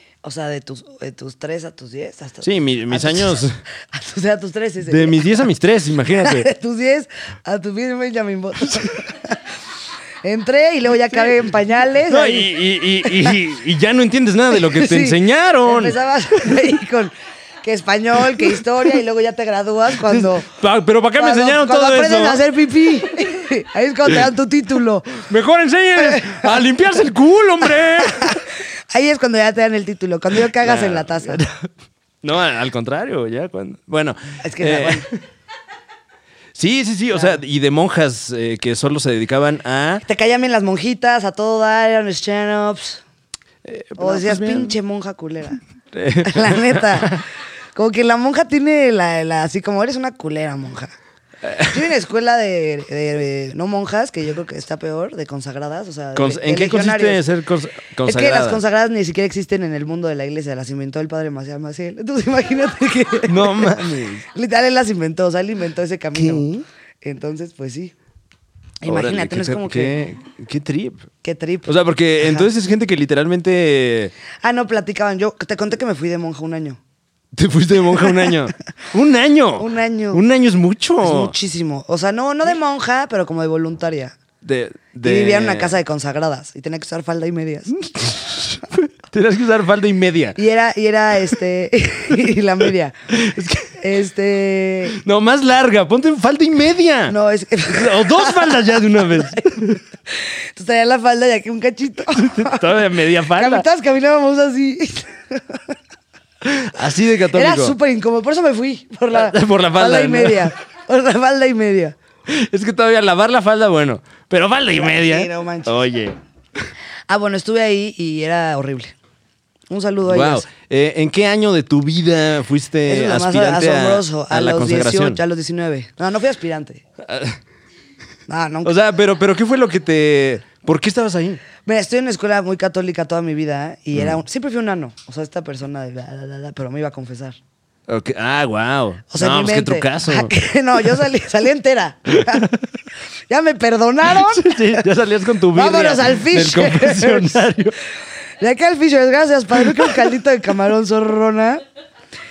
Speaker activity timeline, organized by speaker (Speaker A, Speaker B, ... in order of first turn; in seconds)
Speaker A: 0.2-5.4, 6.2-9.4, 10.2-12.5, 13.0-13.3, 14.5-20.5, 21.1-25.2, 26.0-26.6, 27.9-31.4, 34.4-35.1, 37.1-37.4, 40.0-43.0, 44.0-45.6, 46.2-50.9, 51.7-57.2, 58.0-66.5, 67.0-67.9, 68.8-70.0, 71.2-72.5, 74.4-76.8, 79.6-80.2, 81.0-84.2, 85.0-87.8, 90.3-93.0, 93.8-95.0, 97.1-105.7, 107.3-112.0, 114.8-115.8, 117.1-118.9, 119.7-120.5, 122.8-126.8, 128.3-128.7, 131.6-137.4, 139.1-142.5, 143.3-144.8, 145.5-147.5, 148.4-151.6
Speaker B: 2.4-3.5, 4.8-6.5, 12.0-16.8, 18.3-18.6, 20.0-22.5, 25.1-28.4, 30.4-31.5, 32.2-35.2, 36.5-40.0, 43.6-44.8, 45.9-47.2, 51.4-51.9, 56.1-58.6, 63.3-64.2, 66.1-66.6, 68.8-71.1, 71.7-74.1, 77.3-81.3, 84.4-85.8, 87.9-90.4, 93.1-93.8, 94.9-97.1, 97.7-99.8, 102.1-103.6, 106.4-107.8, 109.1-110.5, 112.3-116.2, 120.1-125.2, 127.0-127.4, 128.6-131.4, 137.9-140.3, 142.1-142.7, 144.1-147.7, 149.6-150.1